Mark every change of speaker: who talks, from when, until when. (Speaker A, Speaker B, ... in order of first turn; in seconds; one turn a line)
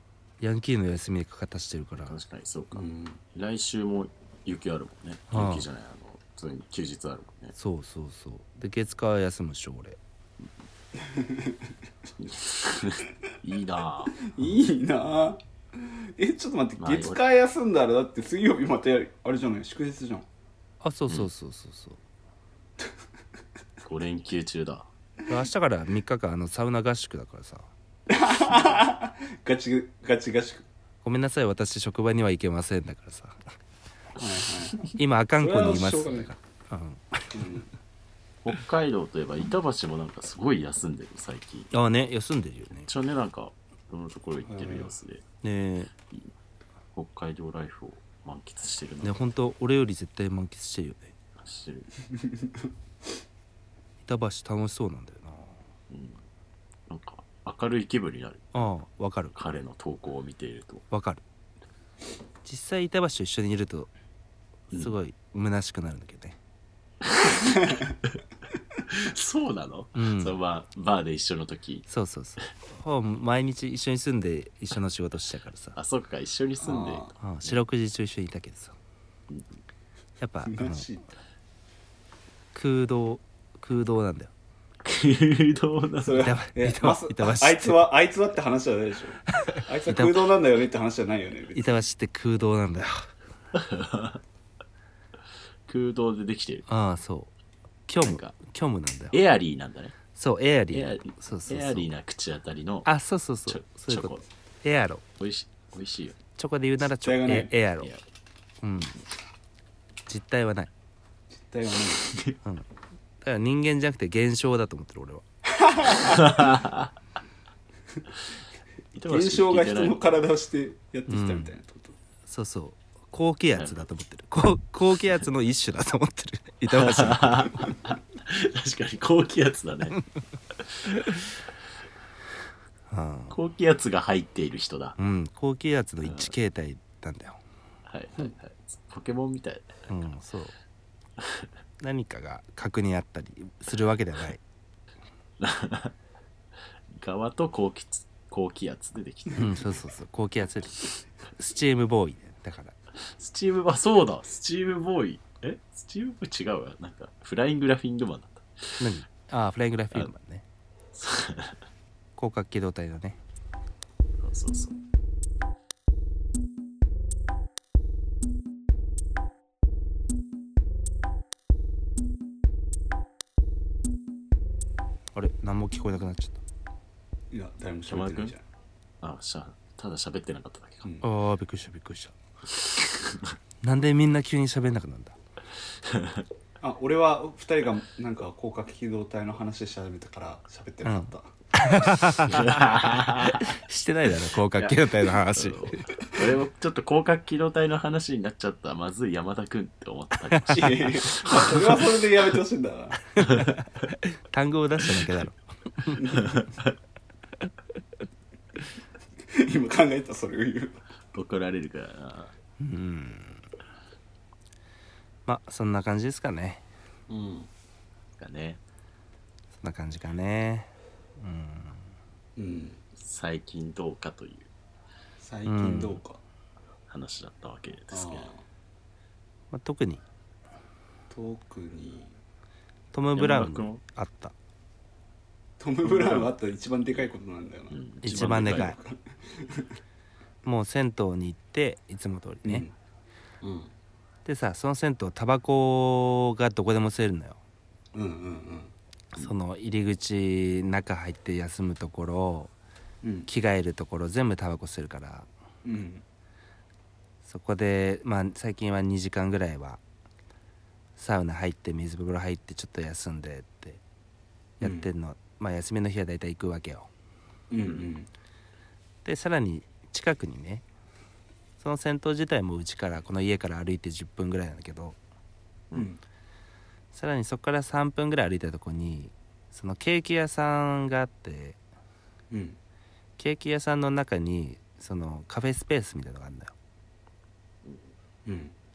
Speaker A: 0.4-2.2
Speaker B: 2.1-7.5
Speaker C: 2.7-3.2
Speaker A: 5.3-5.7
Speaker A: 7.5-10.0
Speaker C: 11.1-11.6
Speaker B: 12.2-14.3
Speaker C: 14.2-20.3
Speaker B: 16.8-17.2
Speaker A: 20.8-22.0
Speaker B: 23.8-24.9
Speaker A: 25.3-27.7
Speaker C: 28.1-30.7
Speaker A: 31.0-33.5
Speaker C: 34.2-36.3
Speaker A: 34.9-37.5
Speaker C: 37.3-37.7
Speaker B: 38.4-41.7
Speaker A: 41.7-42.9
Speaker B: 42.9-45.2
Speaker C: 44.5-44.9
Speaker A: 45.4-45.9
Speaker B: 47.0-49.2
Speaker A: 49.0-51.1
Speaker B: 51.4-51.9
Speaker A: 54.0-55.6
Speaker B: 55.9-56.2
Speaker B: 56.9-58.5
Speaker A: 58.5-59.4
Speaker B: 59.4-60.8
Speaker A: 60.9-61.2
Speaker A: 62.4-63.9
Speaker A: 64.7-66.4
Speaker B: 67.0-67.8
Speaker B: 68.9-71.9
Speaker A: 70.0-70.4
Speaker A: 71.9-75.8
Speaker B: 75.8-77.6
Speaker C: 76.6-77.1
Speaker A: 77.2-78.8
Speaker A: 80.2-80.9
Speaker C: 80.5-81.1
Speaker A: 82.5-84.3
Speaker B: 84.8-86.3
Speaker C: 86.0-91.7
Speaker A: 86.2-87.9
Speaker A: 89.4-90.3
Speaker A: 91.5-93.1
Speaker B: 93.5-94.2
Speaker B: 95.7-96.7
Speaker A: 96.7-97.3
Speaker A: 97.9-99.2
Speaker B: 98.0-98.4
Speaker B: 99.1-100.0
Speaker A: 100.2-101.9
Speaker B: 100.7-102.9
Speaker A: 102.8-105.0
Speaker B: 103.5-104.2
Speaker B: 105.2-106.2
Speaker A: 106.4-107.9
Speaker C: 107.0-107.5
Speaker A: 108.6-109.0
Speaker A: 110.1-110.7
Speaker C: 111.3-112.2
Speaker B: 112.0-112.3
Speaker A: 113.2-115.2
Speaker C: 115.6-116.3
Speaker B: 116.0-116.9
Speaker B: 118.9-120.0
Speaker C: 119.1-122.0
Speaker A: 121.1-121.5
Speaker A: 122.3-127.6
Speaker B: 126.7-130.0
Speaker A: 132.9-133.4
Speaker B: 133.3-135.0
Speaker A: 135.0-137.4
Speaker B: 136.0-136.3
Speaker B: 137.9-139.9
Speaker A: 139.9-140.6
Speaker A: 141.8-144.4
Speaker B: 145.4-145.9
Speaker B: 146.9-149.7
Speaker A: 149.3-152.8
Speaker B: 153.1-158.8
Speaker A: 158.8-160.4
Speaker B: 160.9-161.6
Speaker A: 162.2-163.2
Speaker B: 164.2-164.8
Speaker A: 175.1-176.4
Speaker C: 177.3-178.4
Speaker B: 177.9-178.3
Speaker B: 179.0-180.9
Speaker A: 181.0-182.2
Speaker B: 182.6-183.3
Speaker A: 183.6-185.2
Speaker B: 185.8-186.3
Speaker C: 186.6-191.3
Speaker A: 190.9-195.9
Speaker B: 192.2-193.5
Speaker B: 194.5-201.9
Speaker A: 200.3-200.7
Speaker C: 200.5-203.2
Speaker B: 203.2-203.6
Speaker A: 204.1-206.1
Speaker B: 206.2-206.7
Speaker C: 209.3-210.8
Speaker B: 211.1-212.3
Speaker A: 212.6-213.4
Speaker A: 215.3-216.6
Speaker B: 217.1-217.5
Speaker B: 218.2-218.6
Speaker A: 219.6-221.9
Speaker C: 222.4-222.8
Speaker B: 223.0-224.5
Speaker C: 225.2-226.2
Speaker A: 225.4-226.0
Speaker B: 226.9-228.3
Speaker C: 227.9-228.4
Speaker A: 229.5-230.0
Speaker C: 231.1-232.1
Speaker A: 232.9-234.3
Speaker B: 233.2-233.8
Speaker C: 235.6-239.8
Speaker B: 235.8-236.3
Speaker B: 237.7-238.7
Speaker A: 238.0-238.8
Speaker A: 240.4-242.7
Speaker C: 242.4-242.7
Speaker B: 243.4-243.7
Speaker A: 244.2-247.4
Speaker C: 247.9-248.7
Speaker A: 249.1-252.5
Speaker C: 253.0-253.3
Speaker A: 253.3-255.3
Speaker C: 255.6-256.0
Speaker A: 257.2-259.8
Speaker A: 261.0-263.8
Speaker A: 264.6-266.9
Speaker C: 264.6-264.9
Speaker C: 267.5-268.1
Speaker A: 269.0-270.6
Speaker A: 271.6-275.0
Speaker C: 275.7-276.0
Speaker A: 276.9-281.6
Speaker C: 282.3-282.6
Speaker A: 283.2-286.6
Speaker C: 288.2-288.5